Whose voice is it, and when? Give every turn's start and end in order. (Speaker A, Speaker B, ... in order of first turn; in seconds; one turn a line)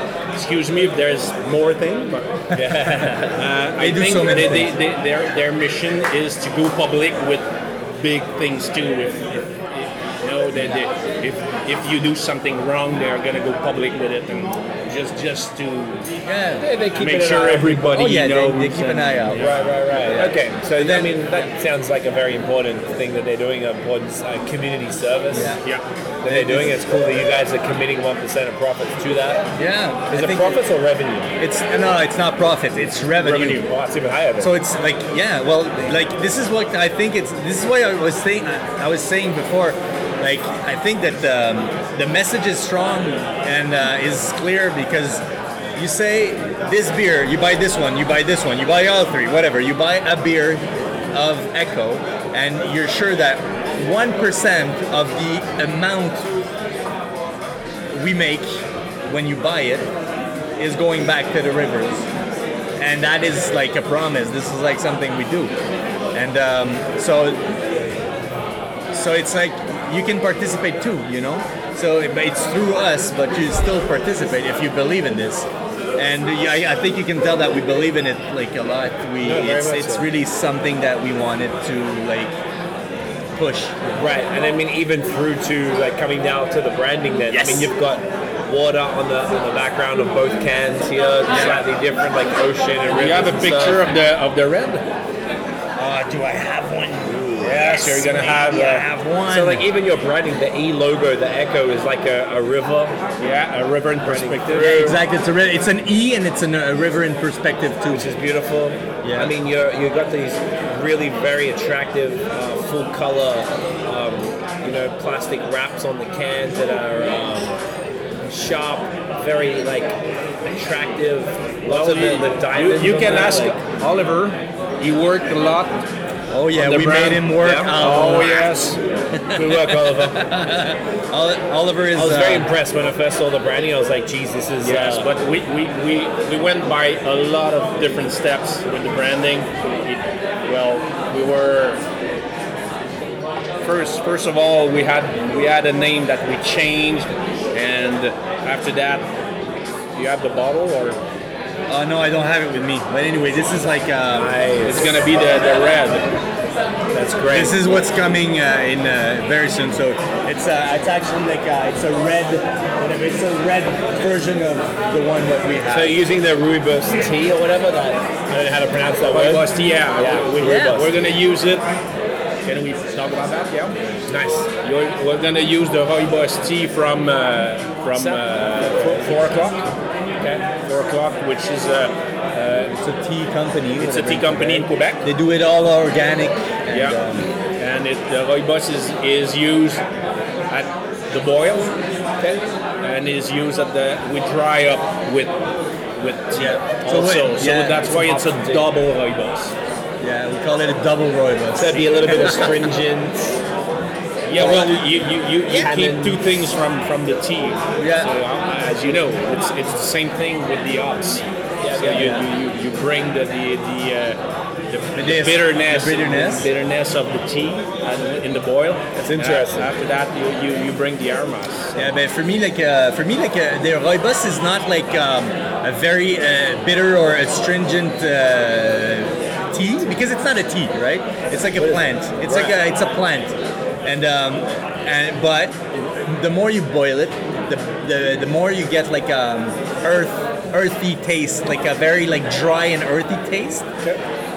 Speaker A: 0.3-2.3
Speaker B: 2.5-3.4
Speaker C: 2.6-3.1
Speaker A: 3.4-16.1
Speaker C: 3.8-4.7
Speaker C: 16.2-16.7
Speaker B: 16.6-18.0
Speaker A: 16.9-19.7
Speaker C: 17.9-21.5
Speaker B: 19.3-25.6
Speaker C: 25.3-25.6
Speaker B: 26.2-29.5
Speaker C: 26.3-26.8
Speaker C: 29.6-30.6
Speaker B: 30.1-31.3
Speaker C: 31.4-33.7
Speaker A: 33.2-33.6
Speaker B: 33.2-34.5
Speaker C: 34.4-45.2
Speaker C: 45.8-56.3
Speaker C: 57.9-59.9
Speaker C: 60.6-62.1
Speaker C: 62.8-65.5
Speaker C: 66.1-67.6
Speaker C: 68.9-82.3
Speaker B: 79.2-80.1
Speaker C: 83.3-84.0
Speaker B: 84.0-93.8
Speaker C: 87.3-87.7
Speaker C: 91.3-91.6
Speaker A: 92.9-94.8
Speaker C: 95.8-99.7
Speaker A: 97.4-98.9
Speaker B: 99.3-103.0
Speaker A: 103.2-104.9
Speaker B: 104.0-105.0
Speaker C: 104.5-108.1
Speaker B: 107.9-117.6
Speaker C: 109.0-109.3
Speaker B: 118.3-123.6
Speaker A: 121.7-125.8
Speaker C: 126.3-128.5
Speaker A: 126.5-128.8
Speaker B: 127.4-127.7
Speaker C: 129.1-132.5
Speaker B: 129.3-130.3
Speaker B: 131.9-135.1
Speaker A: 134.6-141.8
Speaker A: 143.6-149.1
Speaker A: 149.9-151.0
Speaker C: 151.7-154.3
Speaker B: 154.2-155.1
Speaker A: 154.7-156.1
Speaker B: 156.9-157.6
Speaker C: 157.3-166.0
Speaker B: 165.7-170.9
Speaker A: 169.1-171.7
Speaker C: 170.4-170.8
Speaker A: 172.4-173.8
Speaker B: 174.1-174.5
Speaker A: 174.6-179.7
Speaker B: 177.9-179.4
Speaker A: 180.4-182.8
Speaker C: 182.8-187.3
Speaker A: 183.8-185.1
Speaker A: 186.7-187.0
Speaker A: 187.6-189.8
Speaker A: 190.5-191.7
Speaker A: 192.8-195.3
Speaker A: 196.0-199.6
Speaker C: 196.3-198.0
Speaker B: 197.9-198.7
Speaker C: 200.0-202.5
Speaker B: 201.6-203.4
Speaker A: 201.7-202.3
Speaker A: 204.3-221.9
Speaker C: 204.4-204.8
Speaker B: 205.6-206.2
Speaker C: 207.8-208.1
Speaker B: 211.6-212.2
Speaker C: 212.0-212.2
Speaker C: 215.0-216.5
Speaker B: 219.0-219.7
Speaker C: 221.8-243.7
Speaker B: 231.6-232.5